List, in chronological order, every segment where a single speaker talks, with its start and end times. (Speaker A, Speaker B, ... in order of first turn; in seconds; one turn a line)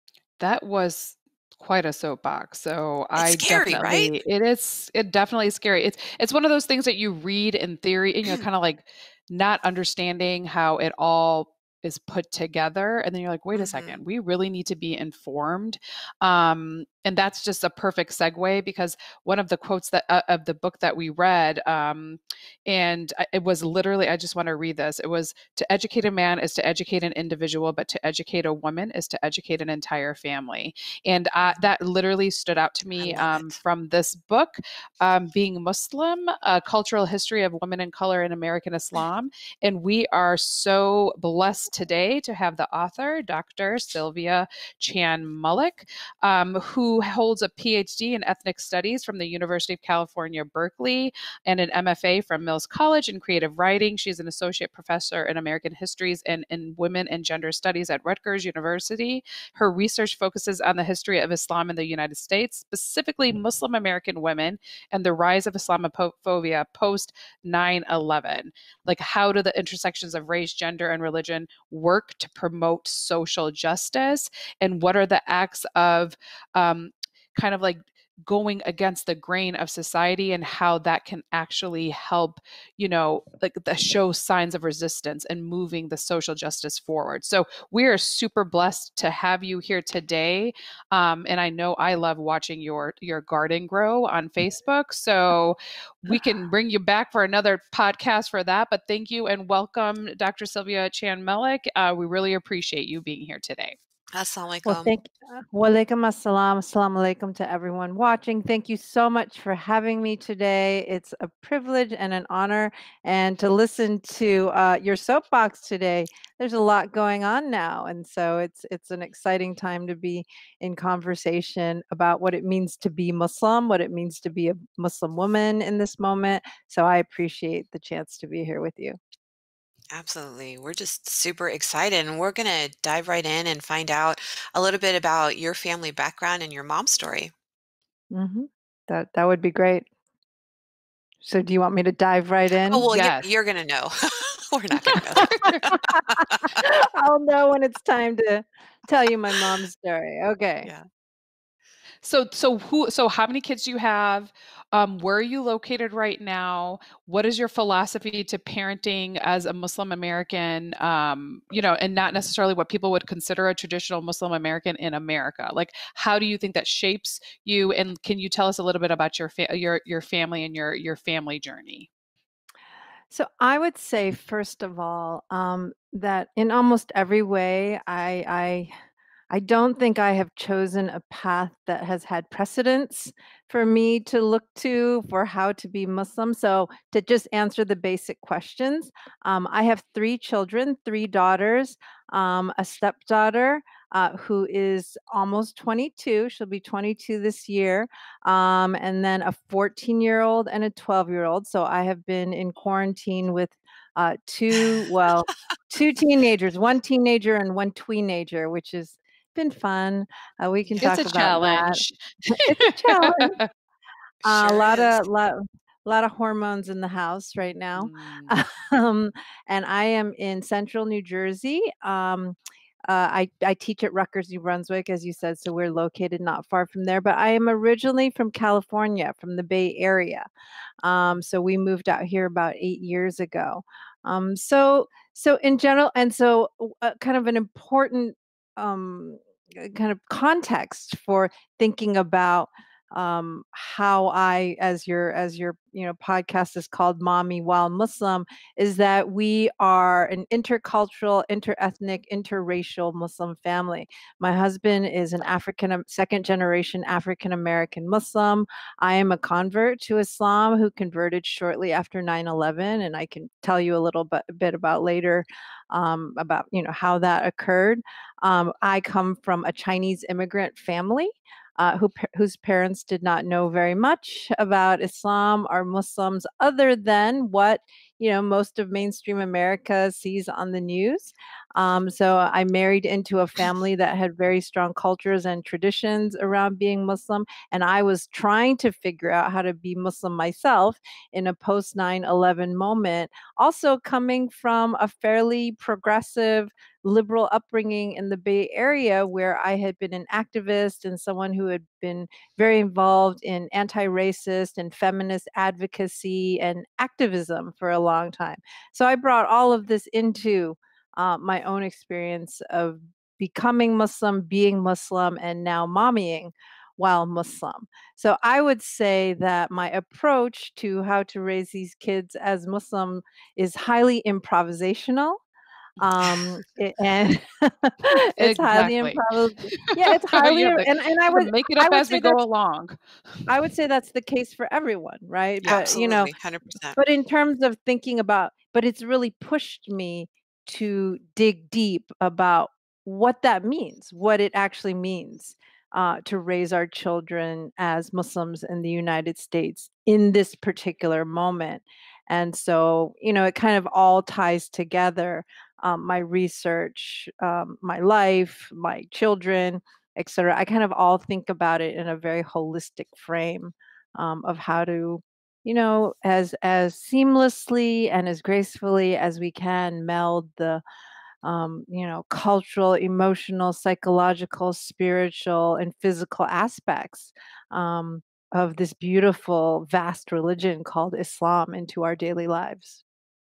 Speaker A: 0.4-103.8
Speaker B: 3.2-4.2
Speaker B: 13.6-14.0
Speaker B: 33.0-33.6
Speaker B: 104.1-104.9
Speaker C: 104.7-129.0
Speaker B: 129.9-137.3
Speaker C: 138.1-139.8
Speaker C: 141.2-142.9
Speaker B: 142.7-146.7
Speaker A: 142.9-143.3
Speaker A: 144.8-145.7
Speaker C: 145.7-150.7
Speaker A: 152.0-171.9
Speaker C: 173.1-178.7
Speaker C: 179.3-213.4
Speaker B: 210.7-211.1
Speaker A: 210.8-213.5
Speaker C: 214.2-222.4
Speaker B: 214.3-215.0
Speaker A: 217.8-218.4
Speaker C: 222.9-230.3
Speaker C: 230.8-325.2
Speaker C: 325.8-332.2
Speaker A: 327.9-329.0
Speaker A: 329.5-333.3
Speaker C: 333.3-336.1
Speaker A: 335.4-335.7
Speaker B: 335.5-336.8
Speaker C: 336.8-370.6
Speaker C: 371.2-382.8